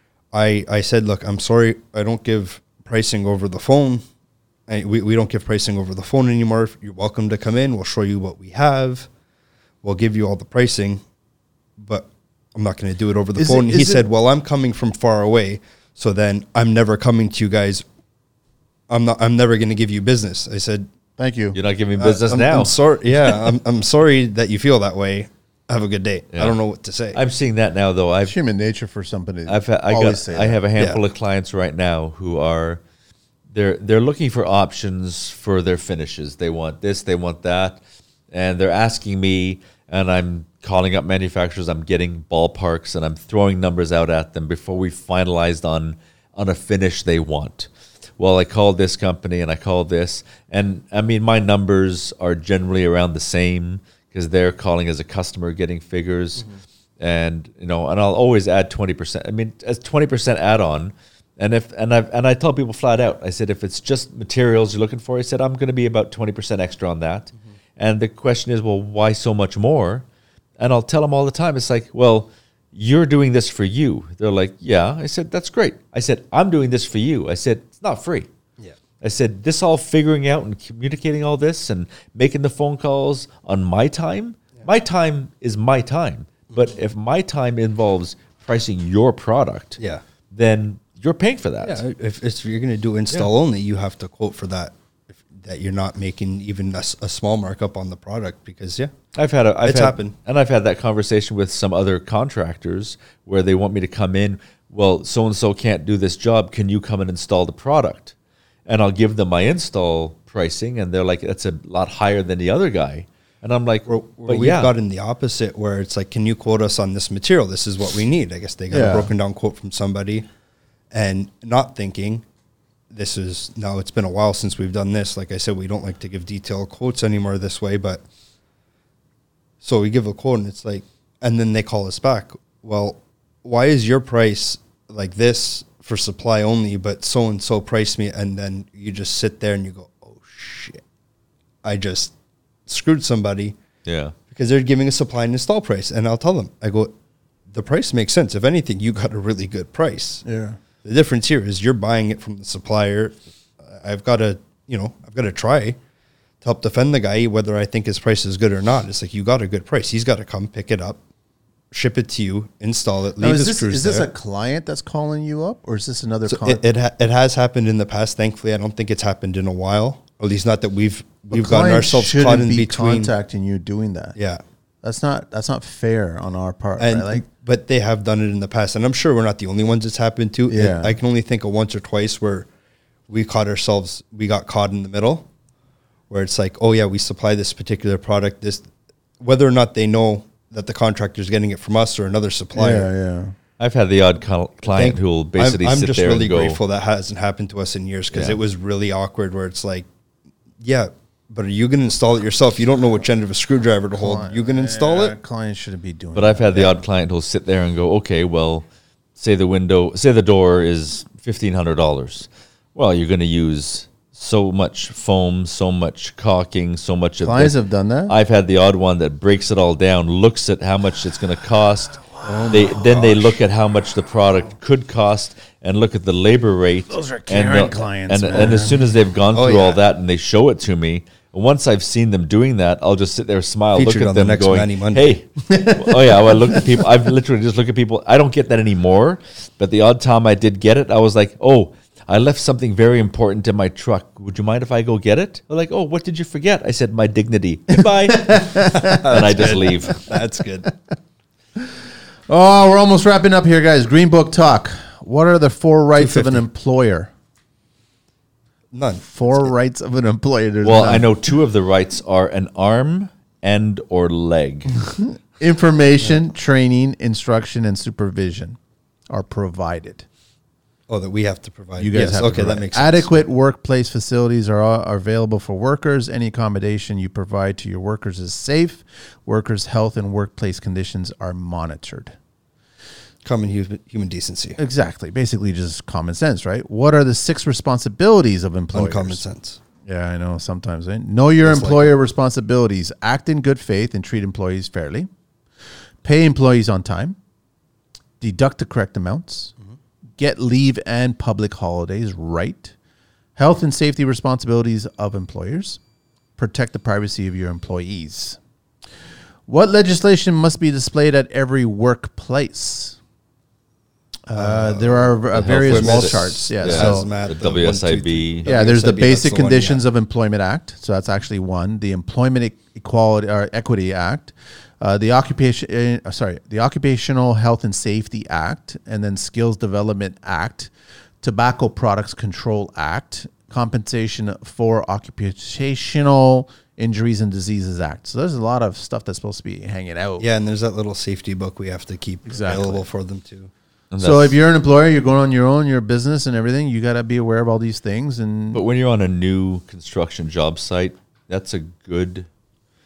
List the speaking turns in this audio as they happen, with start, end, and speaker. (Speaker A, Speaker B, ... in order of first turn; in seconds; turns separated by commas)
Speaker A: 0.3-4.0, Speaker A: 4.7-9.1, Speaker A: 9.8-11.0, Speaker A: 11.8-17.9, Speaker B: 13.4-14.0, Speaker A: 18.9-20.9, Speaker B: 21.2-21.6, Speaker C: 21.5-22.8, Speaker A: 22.0-27.2, Speaker C: 27.1-28.4, Speaker B: 28.2-30.6, Speaker C: 29.5-32.8, Speaker A: 30.8-31.0, Speaker C: 33.5-37.8, Speaker C: 38.3-56.5, Speaker C: 57.0-70.0, Speaker C: 70.6-78.3, Speaker C: 79.0-89.8, Speaker A: 89.8-90.0, Speaker C: 90.3-91.8, Speaker A: 91.6-98.9, Speaker C: 99.2-108.1, Speaker A: 99.6-100.1, Speaker C: 108.7-114.7, Speaker A: 113.9-120.3, Speaker B: 118.7-119.1, Speaker A: 120.9-122.2, Speaker A: 122.9-128.0, Speaker A: 129.6-140.8, Speaker A: 141.6-142.1, Speaker A: 142.7-143.6, Speaker C: 143.8-144.2, Speaker A: 144.3-146.9, Speaker A: 147.5-150.2, Speaker B: 150.2-150.6, Speaker A: 150.8-155.8, Speaker A: 156.4-161.0, Speaker A: 161.7-164.1, Speaker B: 163.2-166.6, Speaker A: 166.3-173.1, Speaker B: 171.3-174.2, Speaker A: 174.2-174.4, Speaker B: 174.8-177.2, Speaker A: 176.8-182.5, Speaker B: 180.5-180.9, Speaker A: 183.1-185.3, Speaker A: 186.1-188.7, Speaker A: 189.2-192.9, Speaker B: 192.6-193.3, Speaker C: 193.6-196.6, Speaker A: 194.7-199.9, Speaker C: 198.1-198.4, Speaker A: 200.6-205.2, Speaker B: 204.0-206.8, Speaker C: 206.2-217.6, Speaker B: 217.2-218.1, Speaker C: 218.1-250.1, Speaker B: 222.2-223.3, Speaker A: 222.2-222.9, Speaker B: 226.9-228.8, Speaker A: 229.3-229.8, Speaker A: 233.7-235.1, Speaker B: 235.5-236.8, Speaker B: 248.1-249.0, Speaker A: 248.7-250.7, Speaker B: 252.3-257.1, Speaker A: 256.0-256.4, Speaker A: 258.7-259.5, Speaker B: 259.1-261.1, Speaker C: 260.6-264.9, Speaker B: 264.8-268.6, Speaker B: 269.1-270.1, Speaker A: 270.9-273.1, Speaker B: 271.8-282.1, Speaker A: 283.2-284.6, Speaker B: 284.6-289.2, Speaker A: 288.7-289.6, Speaker B: 289.8-295.1, Speaker A: 291.4-291.9, Speaker B: 296.0-297.2, Speaker B: 298.2-299.5, Speaker B: 300.2-302.7, Speaker B: 303.4-305.8, Speaker B: 306.4-308.4, Speaker B: 309.5-313.0, Speaker B: 314.3-317.1, Speaker A: 314.3-319.8, Speaker C: 315.4-318.5, Speaker B: 318.4-330.7, Speaker B: 331.2-340.3, Speaker A: 340.2-343.5, Speaker B: 342.3-342.9, Speaker C: 343.9-344.4, Speaker B: 344.0-348.6, Speaker C: 348.5-352.3